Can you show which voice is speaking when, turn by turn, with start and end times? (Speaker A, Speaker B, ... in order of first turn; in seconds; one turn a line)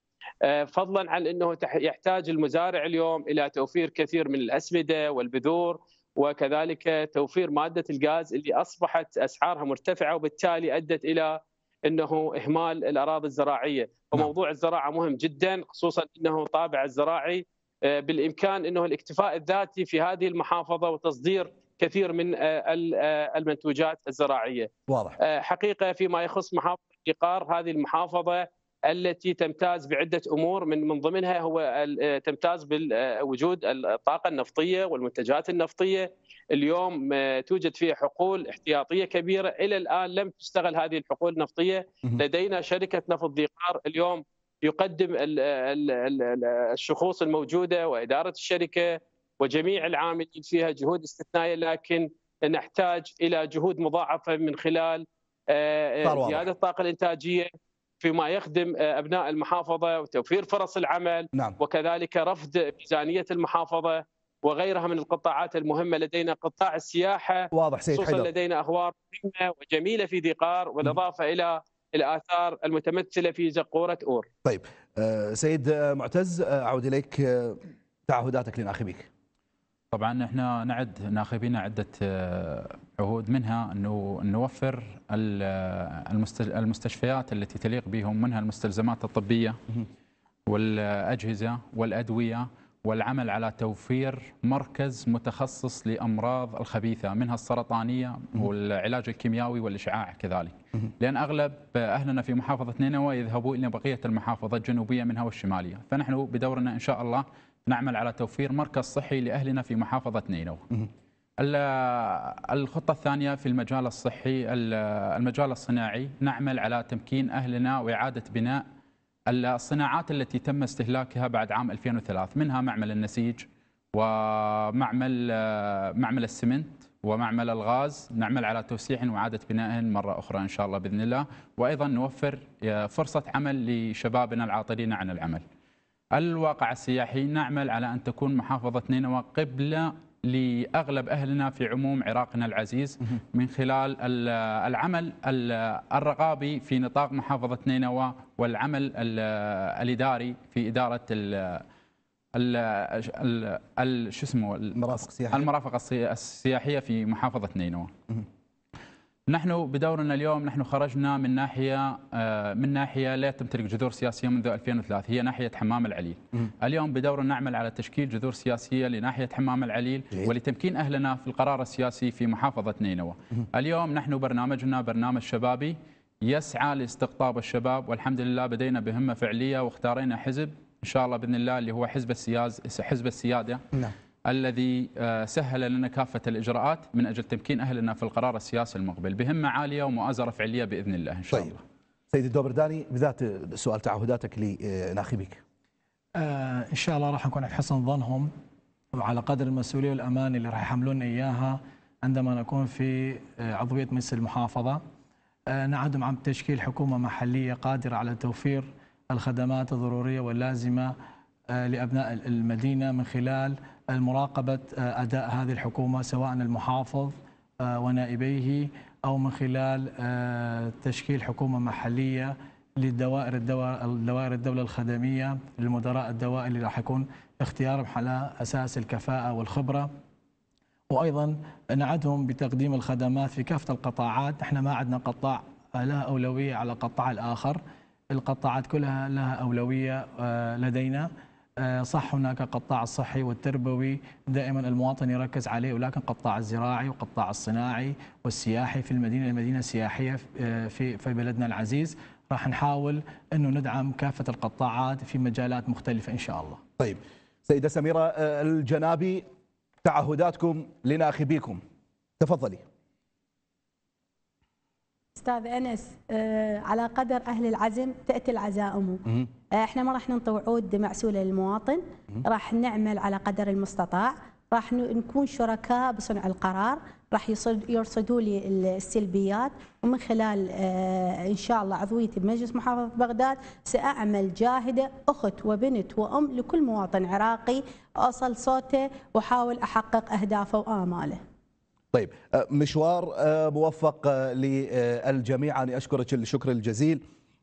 Speaker A: 0.5-24.7
Speaker B: 24.9-25.2
Speaker A: 25.2-57.5
Speaker B: 56.0-56.5
Speaker A: 58.0-74.3
Speaker B: 67.5-68.3
Speaker B: 74.5-79.1
Speaker C: 79.9-89.6
Speaker C: 90.5-110.6
Speaker C: 111.4-118.6
Speaker C: 119.3-135.4
Speaker C: 136.2-151.7
Speaker C: 152.3-157.9
Speaker B: 154.8-155.5
Speaker C: 159.3-183.6
Speaker C: 184.3-191.6
Speaker B: 192.1-195.4
Speaker D: 196.2-198.3
Speaker D: 198.9-204.8
Speaker D: 205.5-210.9
Speaker D: 211.5-229.9
Speaker D: 230.9-237.6
Speaker D: 238.1-241.1
Speaker D: 241.6-256.6
Speaker B: 256.8-259.3
Speaker B: 259.8-261.6
Speaker B: 262.2-262.6
Speaker E: 265.2-269.0
Speaker E: 269.6-291.2
Speaker B: 291.9-297.0